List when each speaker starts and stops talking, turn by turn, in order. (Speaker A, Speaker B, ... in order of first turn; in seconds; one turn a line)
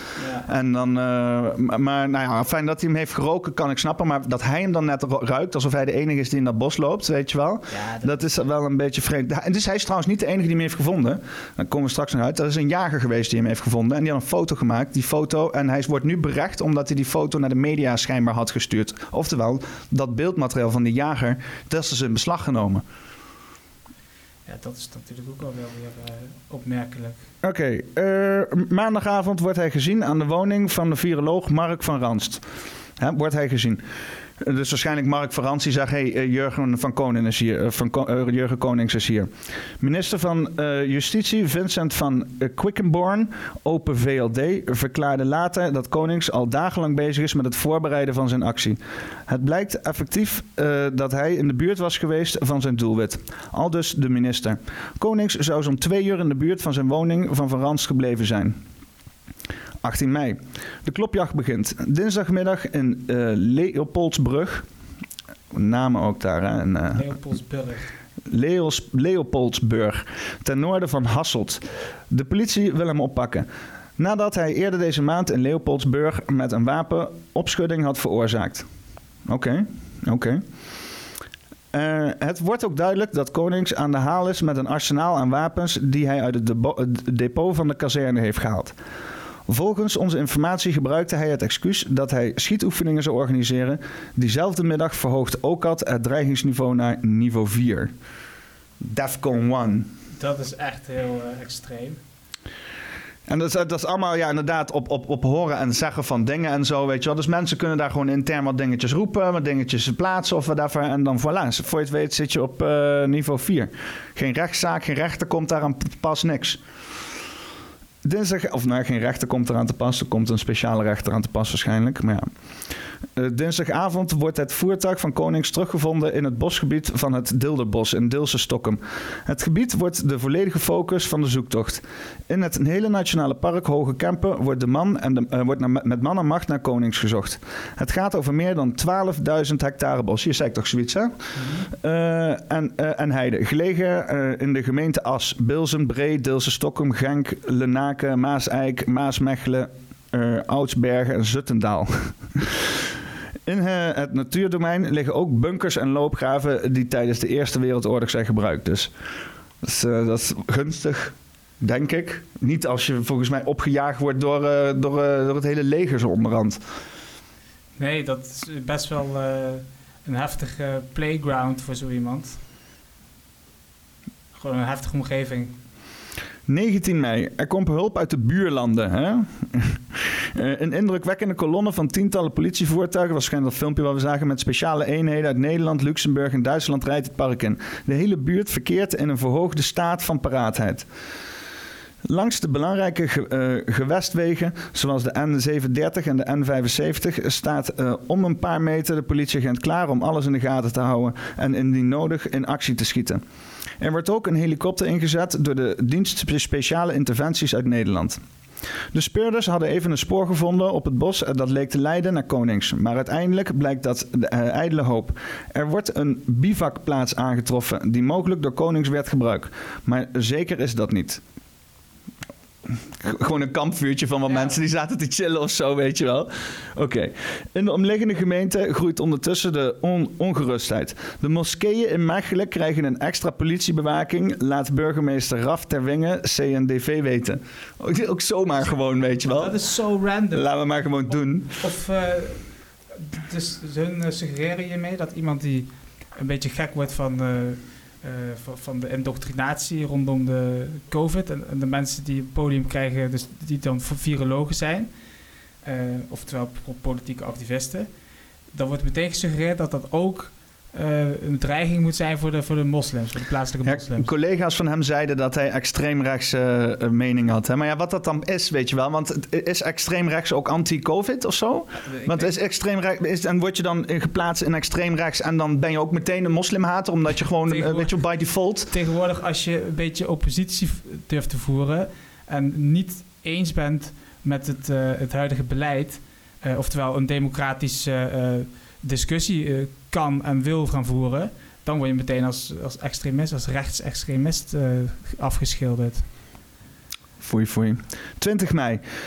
Speaker A: 0.2-0.5
Speaker B: 0.5-22.8
Speaker A: 7.7-8.2
Speaker A: 24.5-27.2
Speaker B: 27.4-32.4
Speaker B: 33.0-33.8
Speaker B: 34.4-58.6
Speaker B: 59.8-64.7
Speaker B: 65.5-67.1
Speaker A: 66.9-67.9
Speaker B: 68.3-73.5
Speaker B: 74.0-78.7
Speaker B: 79.3-80.4
Speaker B: 81.7-88.8
Speaker B: 89.5-97.9
Speaker B: 98.8-99.9
Speaker A: 100.2-102.0
Speaker B: 103.3-116.6
Speaker B: 118.0-122.3
Speaker B: 123.2-141.2
Speaker A: 141.3-141.7
Speaker B: 141.7-152.8
Speaker B: 153.5-158.9
Speaker B: 159.6-166.6
Speaker A: 167.8-172.4
Speaker A: 174.3-175.6
Speaker B: 176.5-190.9
Speaker B: 192.1-203.2
Speaker B: 203.8-208.2
Speaker B: 208.9-221.2
Speaker B: 223.0-239.5
Speaker A: 224.3-224.6
Speaker A: 239.2-254.9
Speaker B: 240.3-241.6
Speaker A: 255.6-257.9
Speaker A: 258.5-264.1
Speaker B: 263.6-278.7
Speaker A: 271.9-272.3
Speaker A: 277.5-296.1
Speaker B: 297.2-298.8